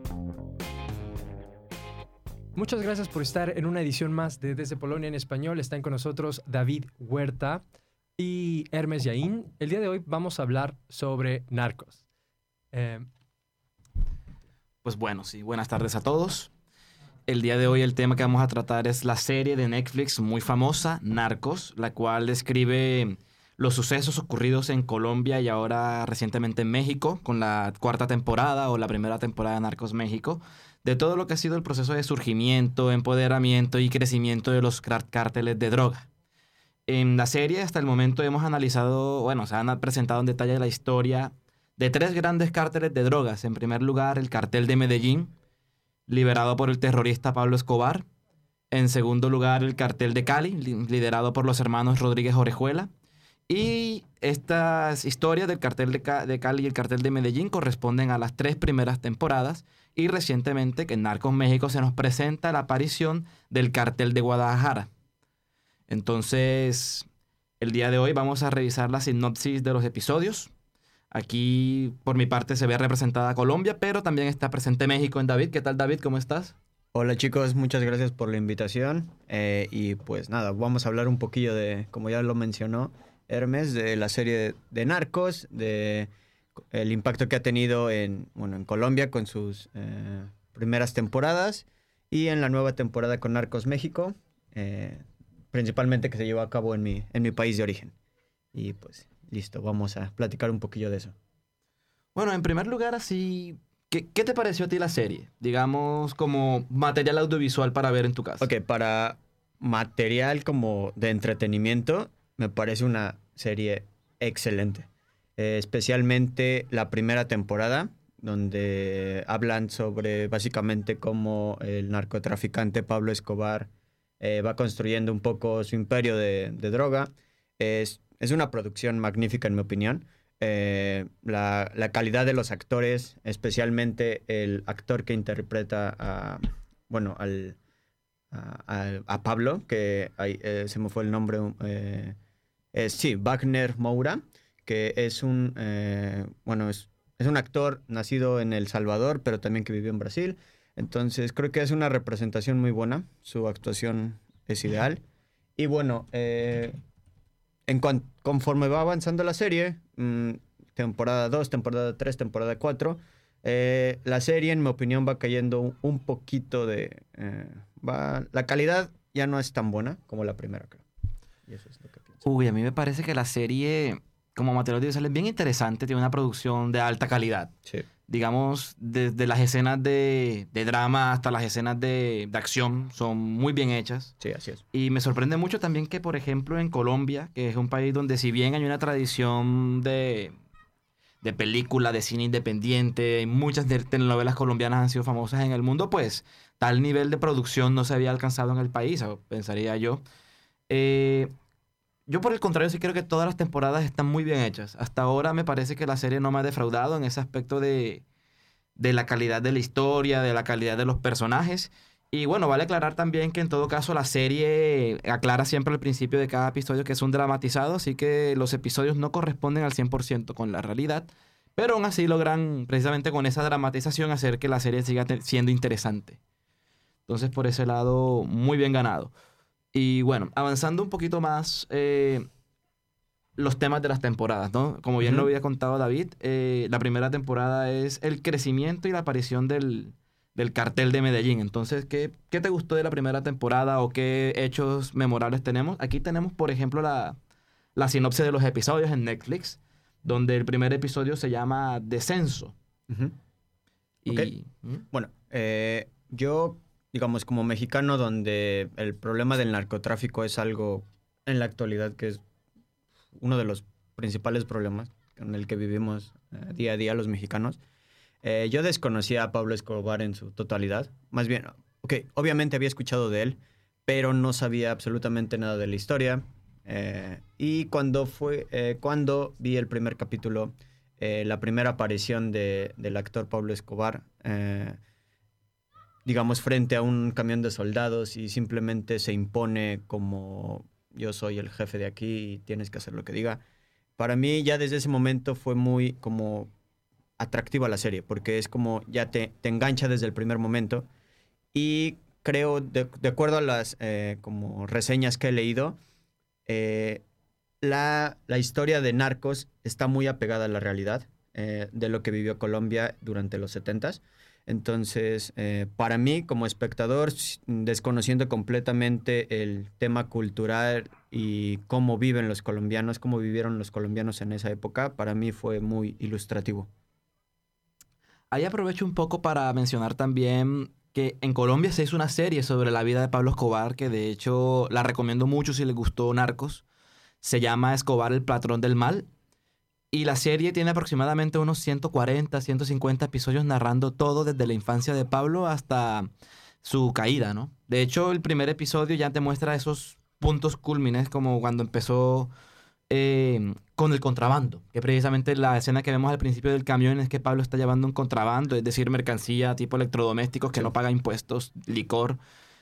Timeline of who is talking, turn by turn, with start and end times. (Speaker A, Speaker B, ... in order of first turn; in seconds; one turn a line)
Speaker A: 2.5-7.6
Speaker A: 8.2-12.0
Speaker A: 12.7-13.1
Speaker B: 14.8-16.5
Speaker B: 17.3-36.1
Speaker B: 36.9-45.3
Speaker B: 46.1-48.0
Speaker B: 48.7-52.9
Speaker B: 53.5-64.9
Speaker B: 65.9-67.1
Speaker B: 67.6-70.5
Speaker B: 71.1-76.5
Speaker C: 76.9-86.1
Speaker C: 86.7-97.9
Speaker C: 98.5-101.1
Speaker B: 102.1-108.5
Speaker C: 108.4-137.6
Speaker C: 138.3-142.2
Speaker C: 142.7-155.0
Speaker C: 155.6-156.8
Speaker C: 157.7-170.8
Speaker C: 171.5-172.2
Speaker B: 172.2-177.5
Speaker B: 178.1-184.1
Speaker C: 184.2-184.6
Speaker B: 184.7-190.4
Speaker B: 191.2-200.0
Speaker B: 200.7-201.3
Speaker B: 202.1-208.0
Speaker B: 208.8-226.2
Speaker B: 227.1-229.1
Speaker B: 229.7-232.2
Speaker B: 233.4-247.2
Speaker C: 235.0-235.3
Speaker B: 247.8-252.5
Speaker C: 252.9-253.1
Speaker B: 254.0-254.8
Speaker C: 254.1-254.3
Speaker C: 254.9-262.2
Speaker C: 263.1-267.6
Speaker C: 268.2-284.8
Speaker C: 286.0-293.4
Speaker C: 294.0-296.5
Speaker C: 297.2-300.9
Speaker C: 301.5-305.8
Speaker C: 306.5-307.0
Speaker C: 307.6-326.7
Speaker B: 328.3-336.6
Speaker B: 337.2-339.1
Speaker B: 339.9-346.1
Speaker B: 346.6-352.3
Speaker B: 352.9-362.2